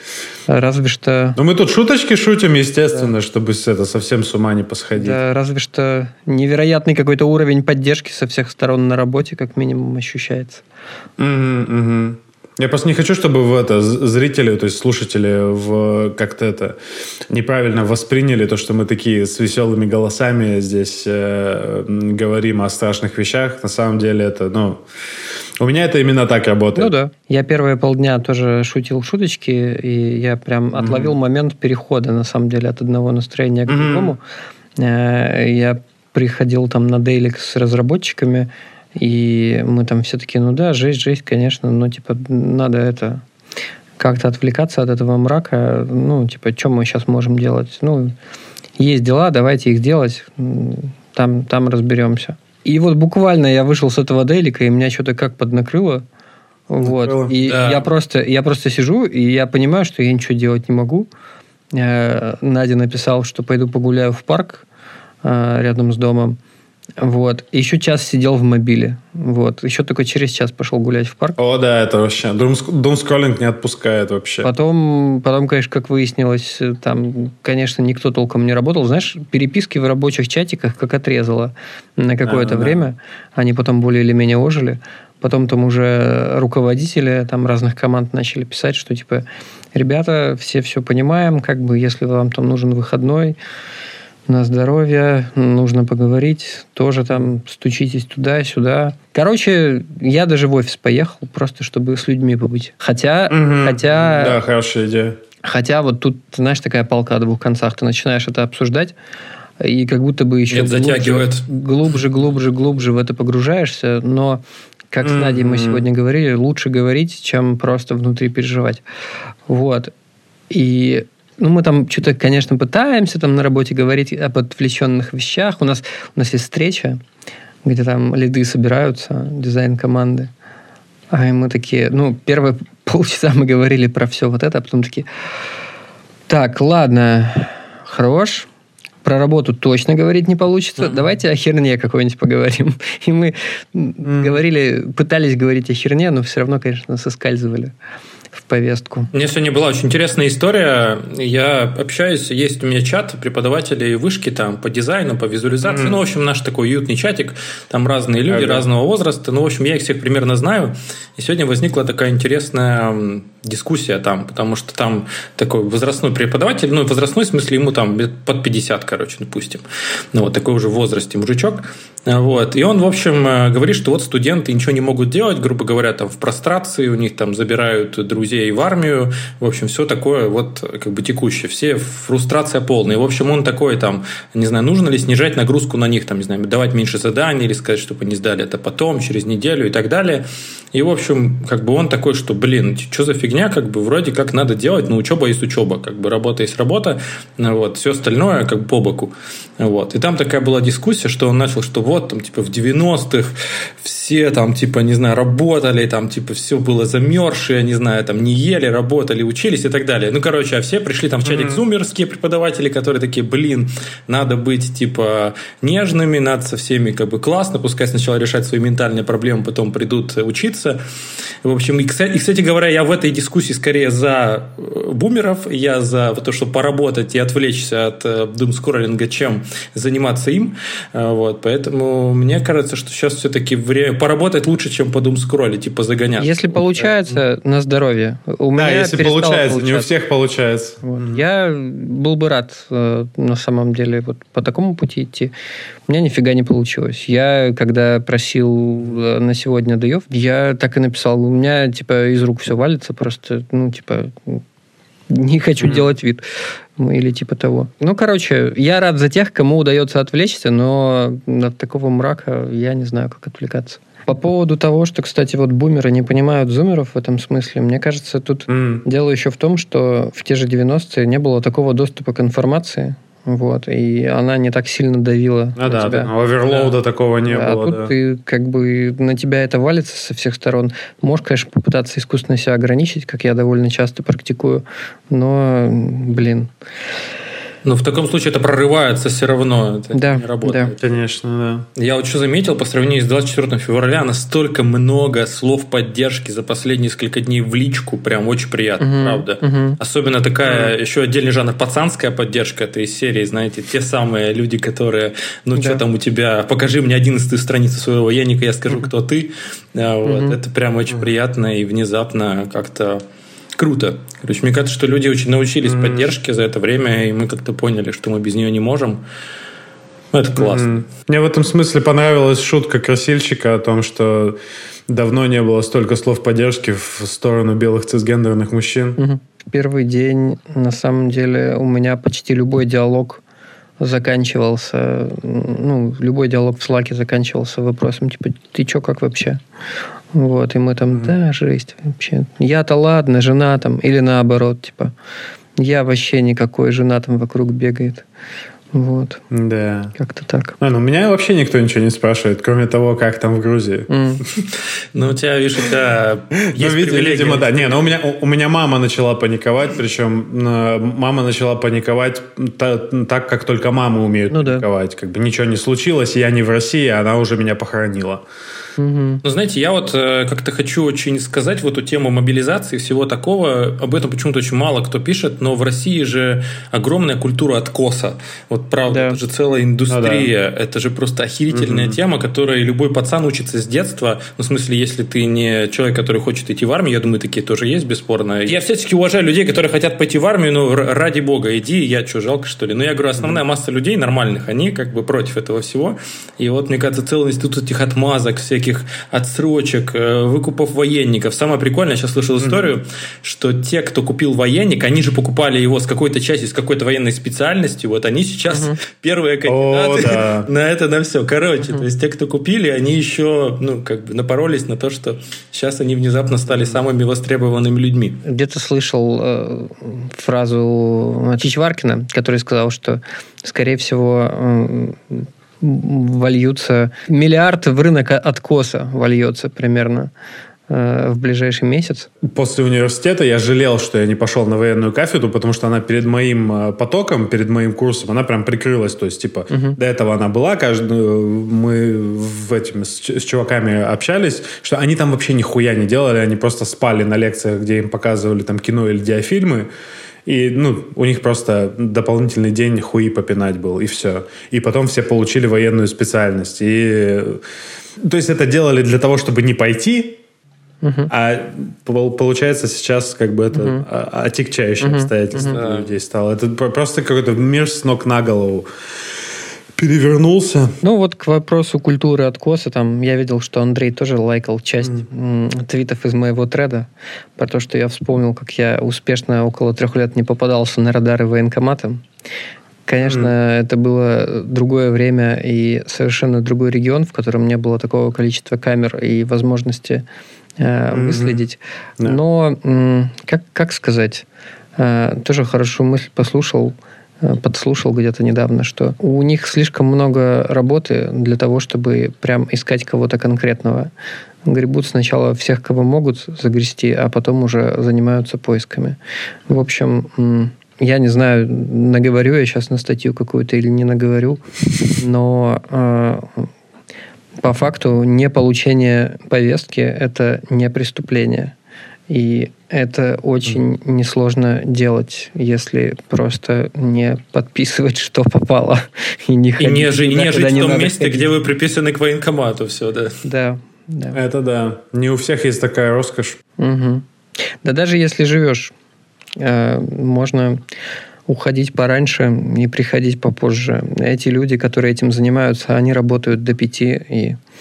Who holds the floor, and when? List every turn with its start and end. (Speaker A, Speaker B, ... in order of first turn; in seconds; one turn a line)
Speaker A: 0.5-1.4
Speaker B: 1.4-5.2
Speaker A: 5.0-10.6
Speaker B: 11.2-16.8
Speaker B: 17.3-24.8
Speaker B: 25.6-26.9
Speaker A: 26.7-34.2
Speaker B: 30.7-31.1
Speaker B: 33.7-34.1
Speaker A: 34.8-43.2
Speaker A: 44.0-48.1
Speaker A: 48.8-56.0
Speaker A: 56.7-61.1
Speaker B: 56.8-57.3
Speaker C: 57.4-57.9
Speaker A: 61.7-64.6
Speaker A: 65.2-66.4
Speaker A: 67.0-71.4
Speaker B: 71.4-74.5
Speaker A: 74.4-93.4
Speaker B: 82.2-82.8
Speaker A: 94.3-104.4
Speaker B: 103.3-105.2
Speaker A: 105.4-108.9
Speaker A: 109.6-118.8
Speaker C: 110.5-111.5
Speaker B: 115.0-115.8
Speaker A: 119.5-119.9
Speaker A: 120.5-127.0
Speaker A: 127.6-130.3
Speaker A: 131.1-135.1
Speaker A: 136.3-138.5
Speaker A: 139.0-147.7
Speaker B: 144.0-144.4
Speaker A: 148.4-149.1
Speaker C: 149.1-220.8
Speaker B: 155.6-156.0
Speaker B: 158.3-158.7
Speaker B: 211.2-211.6
Speaker C: 221.4-236.6
Speaker A: 236.2-239.9
Speaker B: 238.6-241.2
Speaker A: 240.8-245.3
Speaker A: 245.9-254.4
Speaker A: 255.1-256.2
Speaker A: 256.8-276.1
Speaker B: 268.5-268.8
Speaker B: 275.6-277.9
Speaker A: 277.3-286.5
Speaker C: 287.6-290.8
Speaker A: 289.9-290.7
Speaker B: 290.8-291.7
Speaker C: 291.8-313.0
Speaker A: 298.8-299.8
Speaker B: 300.4-300.7
Speaker A: 305.5-305.8
Speaker A: 310.0-310.4
Speaker C: 313.6-319.0
Speaker B: 315.6-316.1
Speaker C: 320.1-320.9
Speaker B: 320.4-329.0
Speaker A: 329.0-333.2
Speaker A: 333.8-339.4
Speaker A: 340.1-344.9
Speaker A: 345.6-348.0
Speaker A: 348.7-349.2
Speaker B: 349.3-349.9
Speaker A: 349.9-350.6
Speaker B: 350.6-353.9
Speaker A: 353.9-354.2
Speaker C: 354.9-357.8
Speaker B: 356.4-368.2
Speaker A: 364.3-364.6
Speaker A: 368.8-369.2
Speaker C: 369.2-418.2
Speaker A: 378.9-379.2
Speaker B: 379.9-380.3
Speaker B: 381.5-382.0
Speaker B: 402.4-402.7
Speaker A: 408.5-408.8
Speaker B: 409.4-410.5
Speaker A: 418.2-430.1
Speaker A: 430.7-432.1
Speaker B: 432.2-449.7
Speaker A: 439.5-439.8
Speaker B: 450.2-457.4
Speaker B: 458.0-460.2
Speaker A: 460.8-461.1
Speaker B: 461.1-468.7
Speaker A: 463.5-463.8
Speaker A: 464.8-465.6
Speaker C: 465.3-465.9
Speaker B: 469.8-470.7
Speaker A: 470.8-482.0
Speaker A: 482.9-490.0
Speaker B: 483.0-483.3
Speaker A: 490.6-494.2
Speaker B: 490.9-491.4
Speaker A: 494.8-503.9
Speaker A: 504.4-514.4
Speaker A: 515.0-516.5
Speaker A: 517.4-521.5
Speaker A: 522.1-531.3
Speaker C: 529.6-533.1
Speaker A: 533.2-534.2
Speaker B: 534.1-536.4
Speaker A: 536.6-537.0
Speaker A: 537.6-538.7
Speaker A: 539.4-540.6
Speaker A: 541.3-547.4